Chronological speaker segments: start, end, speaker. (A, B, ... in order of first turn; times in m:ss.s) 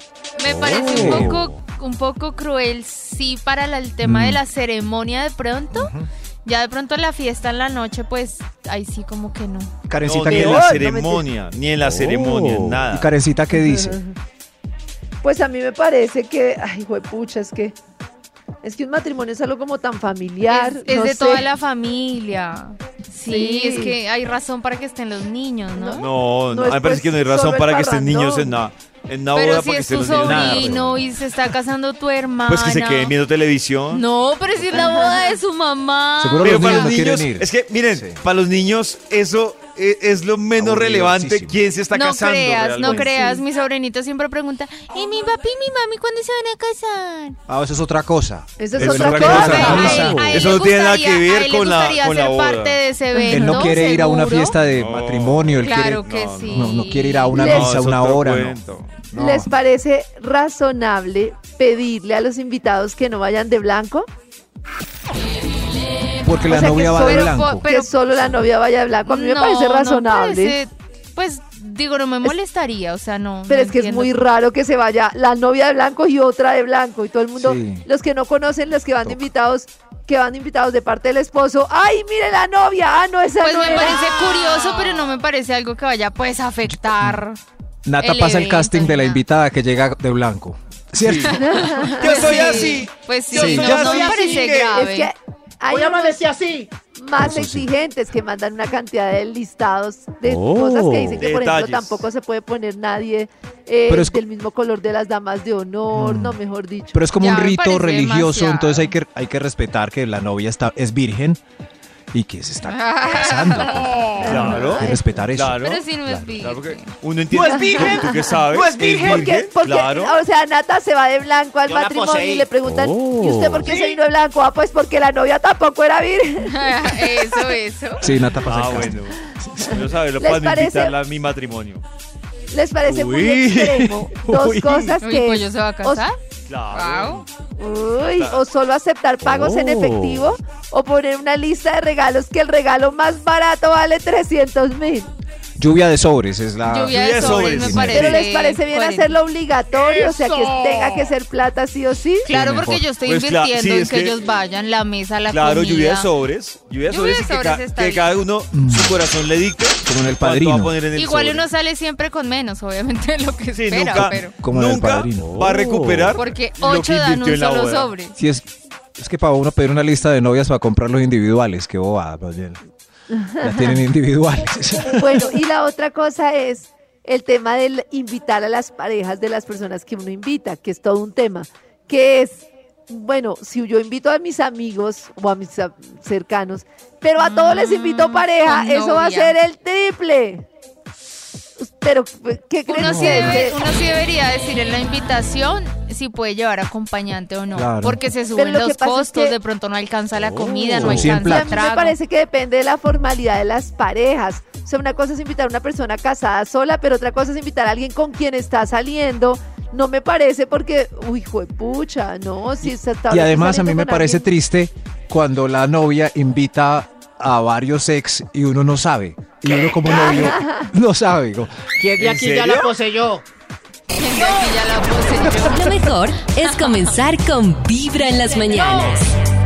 0:00.4-0:05.9 A
0:00.4-0:01.5 B
0:00.8-0:01.4 C
0:04.0-0:04.4 C
0:05.7-0:06.1 C
0:06.4-0:09.7 A
0:09.9-0:10.8 C
0:10.0-0:13.1 D
0:10.3-0:11.3 E
0:11.8-0:12.8 B
0:12.8-0:14.0 C
0:13.5-0:14.2 E
0:15.2-0:17.8 E
0:18.6-0:21.5 E
0:20.4-0:26.1 A
0:23.2-0:24.0 E
0:25.7-0:28.6 E
0:25.9-0:30.9 D
0:29.3-0:33.1 A
0:30.1-0:31.1 C
0:32.4-0:34.0 D
0:33.9-0:36.9 A
0:34.6-0:34.9 D
0:34.7-0:35.2 E
0:36.2-0:38.2 C
0:36.4-0:43.3 D
0:40.6-0:41.6 C
0:41.9-0:47.4 A
0:42.8-0:43.4 E
0:47.5-0:50.4 C
0:48.6-0:50.2 E
0:48.7-0:52.8 D
0:49.3-0:50.6 B
0:49.4-0:54.6 A
0:53.1-0:54.0 E
0:53.3-0:56.0 C
0:54.6-0:56.8 D
0:55.6-0:57.4 A
0:56.5-0:58.6 C
0:57.3-0:57.8 E
0:57.3-0:59.1 D
0:59.1-0:59.5 C
0:59.1-1:04.1 E
1:06.2-1:07.6 C
1:06.4-1:10.6 E
1:07.0-1:07.9 A
1:09.0-1:14.1 A
1:13.5-1:24.1 E
1:17.4-1:17.8 C
1:23.4-1:27.4 A
1:27.8-1:31.9 C
1:28.0-1:29.2 A
1:31.0-1:34.8 D
1:31.3-1:32.2 E
1:32.0-1:35.1 A
1:33.4-1:33.9 C
1:33.8-1:34.5 B
1:34.2-1:36.3 E
1:35.7-1:36.7 B
1:36.9-1:47.1 E
1:37.2-1:37.7 C
1:40.2-1:41.2 B
1:41.1-1:42.1 D
1:43.9-1:44.2 C
1:45.9-1:46.4 C
1:46.9-1:51.4 C
1:47.2-1:48.9 A
1:52.1-1:56.4 C
1:52.6-1:54.1 A
1:54.2-1:55.0 E
1:54.2-1:55.8 D
1:54.8-1:56.9 A
1:56.4-2:00.2 D
1:57.3-1:59.4 B
1:57.4-1:58.3 E
1:58.9-2:07.6 E
2:01.7-2:04.0 B
2:06.4-2:08.1 A
2:08.0-2:09.6 C
2:08.4-2:11.8 D
2:09.6-2:11.0 E
2:12.5-2:16.0 E
2:12.8-2:15.0 D
2:15.0-2:16.1 A
2:16.4-2:17.2 D
2:16.7-2:17.2 A
2:17.6-2:25.1 E
2:18.2-2:18.4 D
2:19.2-2:20.3 B
2:25.6-2:28.0 C
2:26.6-2:29.2 A
2:26.9-2:28.2 D
2:27.9-2:32.3 E
2:29.7-2:31.1 B
2:32.3-2:32.8 C
2:32.3-2:36.1 A
2:33.0-2:34.2 D
2:35.3-2:41.5 D
2:36.9-2:38.2 A
2:38.5-2:39.0 C
2:39.8-2:40.8 C
2:40.9-2:44.4 A
2:43.5-2:47.9 D
2:43.9-2:45.4 C
2:45.1-2:46.2 B
2:46.1-2:48.2 A
2:48.2-2:52.6 C
2:53.1-2:53.8 E
2:53.4-2:55.4 C
2:54.8-3:10.4 E
3:07.2-3:09.4 A
3:11.6-3:13.6 E
3:12.7-3:22.0 A
3:12.7-3:13.4 C
3:17.5-3:18.0 C
3:18.3-3:19.4 E
3:20.2-3:21.1 B
3:20.7-3:21.6 C
3:21.2-3:34.3 E
3:32.6-3:41.7 C
3:39.8-3:40.7 E
3:41.8-3:43.2 B
3:41.9-3:42.7 D
3:43.9-3:45.9 A
3:44.2-3:45.4 B
3:45.4-3:49.1 F
3:46.4-3:46.7 A
3:48.3-3:49.0 B